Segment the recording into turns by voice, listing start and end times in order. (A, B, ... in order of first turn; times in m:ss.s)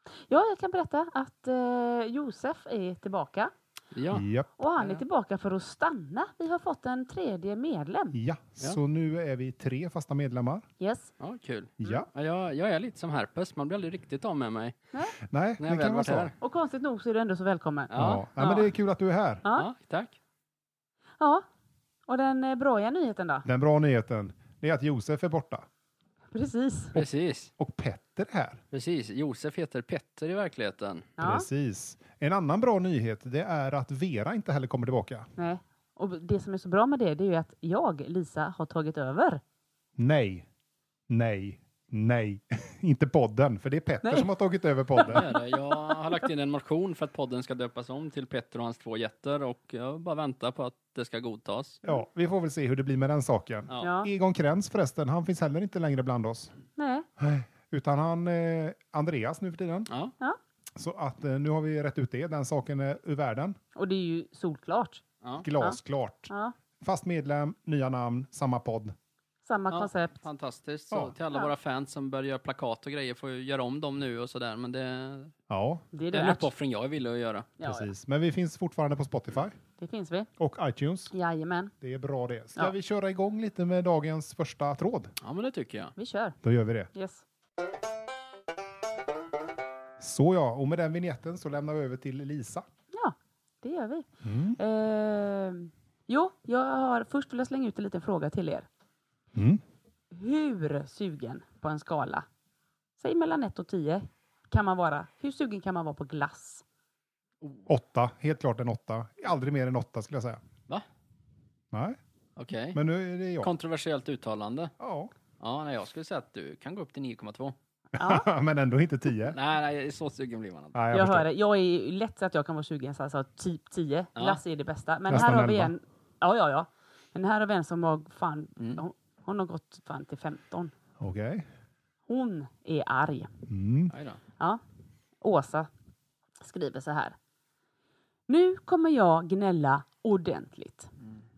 0:00.3-0:03.5 A
0:03.9-0:04.2 B
0:04.1-0:04.5 C
0:04.6-0:08.2 A
0:08.1-0:10.7 C
0:10.8-0:11.1 A
0:11.2-0:14.8 B
0:11.8-0:12.1 C
0:15.2-0:16.3 C
0:15.6-0:16.3 B
0:16.4-0:18.7 A
0:17.9-0:18.2 B
0:18.0-0:19.4 C
0:19.5-0:20.1 B
0:21.2-0:21.4 A
0:22.1-0:23.4 A
0:23.4-0:25.6 C
0:26.3-0:27.0 A
0:26.9-0:27.5 B
0:27.6-0:28.6 C
0:28.7-0:31.1 B
0:31.2-0:31.5 A
0:31.2-0:35.3 C
0:35.4-0:39.4 A
0:40.0-0:40.5 C
0:41.1-0:45.2 C
0:44.0-0:44.3 A
0:45.0-0:45.3 A
0:45.0-0:51.8 B
0:51.8-0:56.5 C
0:53.8-0:54.1 A
0:56.8-0:57.1 A
0:57.2-0:59.9 C
0:59.9-1:00.1 B
1:00.8-1:03.6 C
1:03.7-1:05.0 A
1:05.2-1:05.5 B
1:05.4-1:08.9 C
1:06.3-1:06.5 A
1:09.4-1:10.2 A
1:09.7-1:15.3 B
1:15.5-1:15.8 C
1:15.9-1:16.5 A
1:16.1-1:17.5 B
1:17.6-1:17.9 A
1:17.6-1:19.6 C
1:19.8-1:20.3 A
1:20.4-1:21.1 C
1:21.1-1:21.7 A
1:21.8-1:25.1 C
1:25.2-1:25.9 B
1:26.0-1:26.4 A
1:26.4-1:26.9 C
1:26.9-1:27.2 A
1:30.0-1:32.6 C
1:32.9-1:38.7 A
1:34.2-1:34.6 C
1:39.3-1:39.6 C
1:40.1-1:42.2 A
1:43.0-1:46.6 A
1:47.7-1:50.4 C
1:51.7-1:52.0 C
1:52.4-1:52.8 B
1:52.7-1:53.5 C
1:53.4-1:54.7 B
1:54.8-1:55.1 C
1:55.4-1:57.5 B
1:58.0-1:58.3 A
1:58.0-1:59.4 C
1:59.3-2:00.8 B
2:00.7-2:01.2 C
2:00.9-2:10.7 A
2:05.1-2:05.7 C
2:11.0-2:11.5 C
2:12.1-2:13.3 A
2:13.5-2:13.9 C
2:13.9-2:14.2 B
2:15.2-2:15.7 A
2:16.4-2:17.1 A
2:18.3-2:20.9 A